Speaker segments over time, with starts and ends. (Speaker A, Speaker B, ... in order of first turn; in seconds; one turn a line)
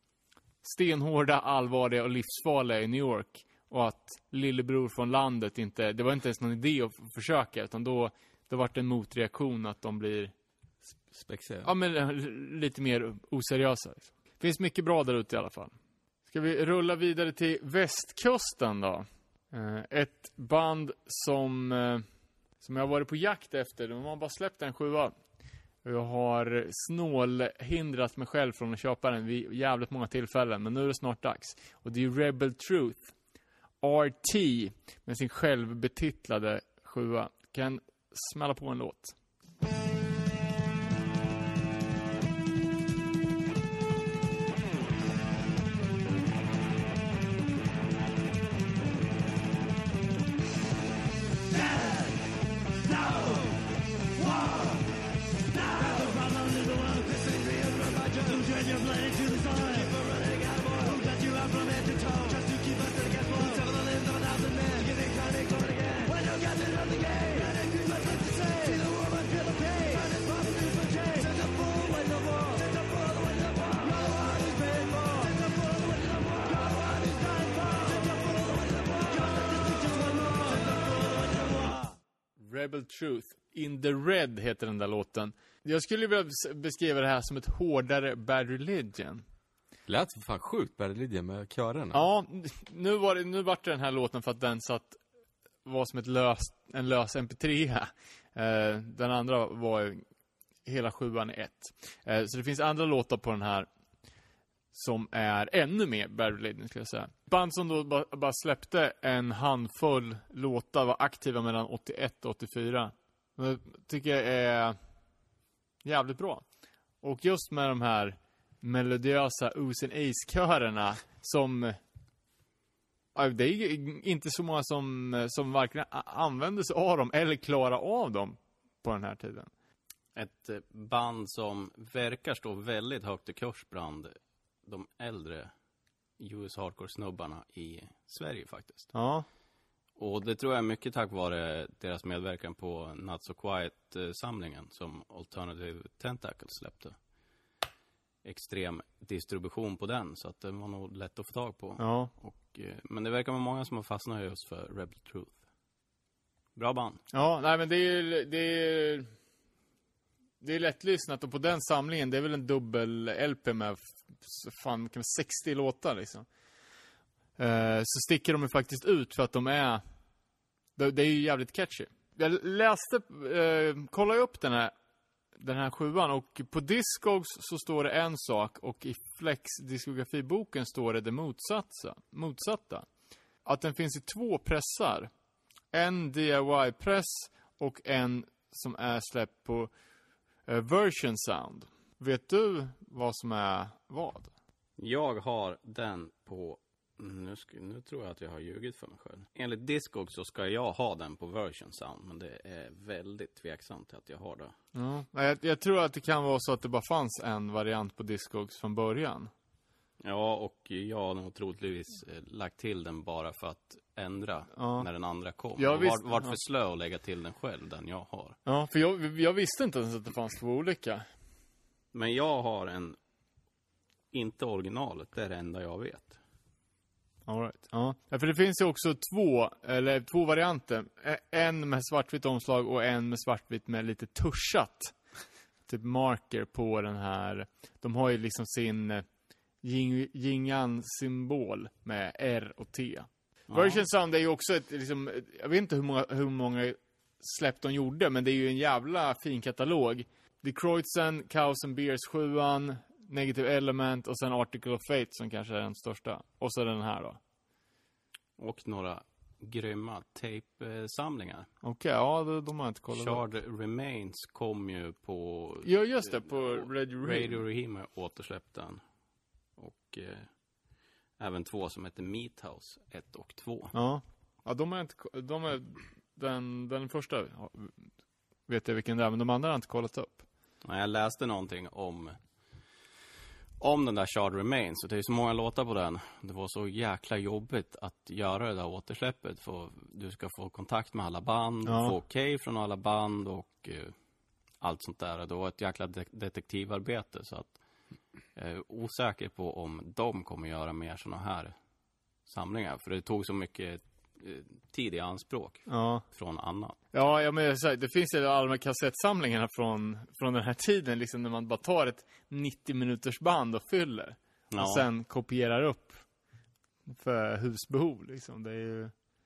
Speaker A: 0.6-10.3
Speaker B: 10.9-11.7
Speaker A: 11.6-15.7
Speaker A: 16.3-22.1
Speaker A: 22.6-25.1
Speaker A: 25.8-33.1
Speaker A: 33.8-39.1
Speaker A: 82.4-89.2
Speaker B: 89.8-92.0
Speaker A: 91.9-95.0
Speaker A: 95.6-100.0
Speaker A: 100.6-103.7
Speaker A: 104.7-114.8
Speaker A: 115.8-116.4
Speaker A: 117.0-121.8
Speaker A: 123.1-129.5
Speaker C: 130.2-135.5
Speaker C: 136.2-138.9
Speaker A: 138.9-139.3
Speaker C: 140.0-146.9
Speaker C: 148.2-155.4
Speaker A: 151.8-152.1
Speaker C: 156.6-157.0
Speaker A: 157.1-159.1
Speaker A: 160.4-166.3
Speaker A: 167.4-169.8
Speaker A: 170.8-174.7
Speaker A: 175.4-182.8
Speaker A: 183.4-185.1
Speaker A: 185.7-189.7
Speaker A: 190.5-194.3
Speaker C: 194.8-204.5
Speaker A: 204.7-209.3
Speaker C: 210.0-218.4
Speaker A: 214.6-214.9
Speaker A: 215.6-216.4
Speaker A: 218.4-221.1
Speaker C: 221.9-223.0
Speaker C: 224.1-226.2
Speaker A: 227.3-234.9
Speaker A: 235.7-239.1
Speaker A: 239.6-257.2
Speaker C: 243.5-243.8
Speaker C: 258.4-261.5
Speaker A: 261.6-263.2
Speaker C: 262.9-268.8
Speaker A: 265.6-267.4
Speaker C: 269.6-270.3
Speaker C: 271.2-273.7
Speaker A: 273.7-277.9
Speaker A: 278.5-280.2
Speaker C: 280.6-282.2
Speaker C: 283.6-293.9
Speaker A: 291.6-291.9
Speaker C: 294.6-297.6
Speaker C: 298.4-301.6
Speaker C: 302.3-306.8
Speaker A: 305.7-306.0
Speaker A: 306.9-316.1
Speaker C: 314.5-314.9
Speaker A: 316.9-318.9